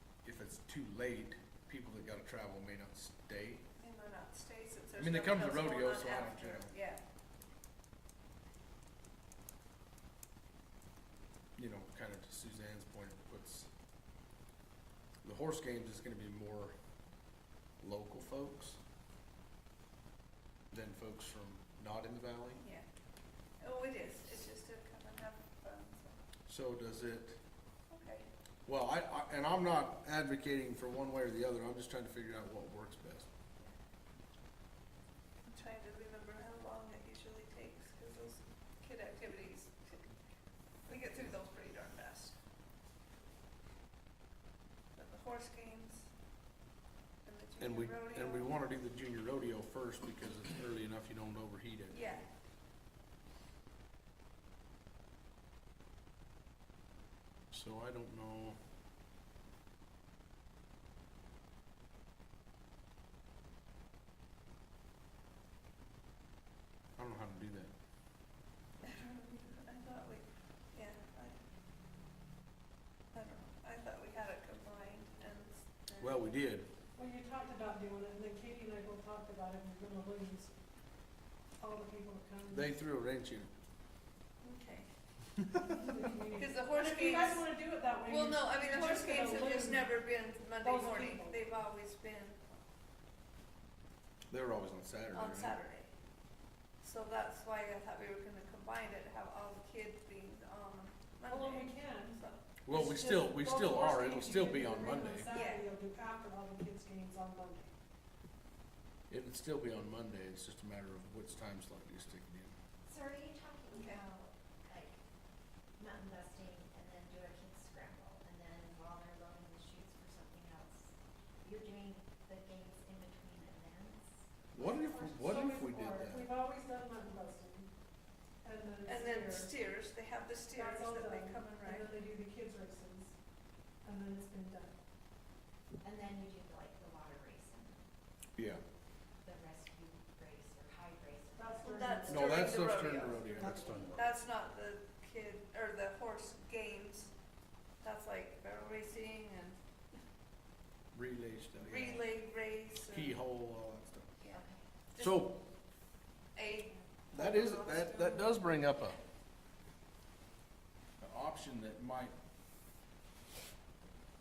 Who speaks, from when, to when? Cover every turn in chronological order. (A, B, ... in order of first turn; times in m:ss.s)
0:00.2-0:03.6 A
0:03.8-0:07.0 B
0:05.0-0:06.7 A
0:11.6-0:13.7 A
0:15.2-0:16.7 A
0:17.8-0:18.8 A
0:20.7-0:22.6 A
0:23.6-0:26.2 B
0:26.4-0:27.4 A
0:27.9-0:28.3 B
0:28.6-0:33.3 A
0:35.5-0:40.0 B
0:40.9-0:42.4 B
0:45.0-0:46.1 B
0:47.2-0:48.5 B
0:47.6-0:52.0 A
0:51.9-0:52.3 B
0:57.5-0:58.6 A
1:07.0-1:07.7 A
1:08.8-1:11.4 B
1:13.1-1:16.2 B
1:16.0-1:16.6 A
1:17.0-1:20.5 C
1:21.6-1:22.7 C
1:22.5-1:23.5 A
1:24.4-1:24.9 B
1:25.4-1:25.7 A
1:25.6-1:29.9 C
1:26.3-1:32.4 B
1:30.6-1:31.4 C
1:34.3-1:35.6 A
1:35.1-1:35.9 B
1:36.8-1:42.4 B
1:41.3-1:42.2 C
1:42.6-1:45.3 A
1:42.7-1:47.7 C
1:45.3-1:45.6 B
1:49.1-1:52.5 A
1:52.9-1:55.0 D
1:53.7-1:54.0 B
1:55.8-2:04.2 D
2:04.5-2:06.3 A
2:04.6-2:07.7 C
2:08.4-2:09.5 C
2:08.9-2:11.9 B
2:10.5-2:13.1 C
2:13.8-2:14.8 C
2:15.8-2:17.8 D
2:18.4-2:18.6 A
2:19.2-2:21.7 D
2:21.3-2:23.9 C
2:21.6-2:27.1 B
2:22.1-2:24.0 A
2:23.4-2:24.0 D
2:27.8-2:29.6 B
2:30.9-2:32.1 A
2:31.6-2:33.2 B
2:32.8-2:34.1 A
2:34.3-2:34.6 D
2:34.9-2:35.4 B
2:35.0-2:35.4 A
2:36.4-2:38.4 B
2:37.1-2:39.0 A
2:41.0-2:42.1 A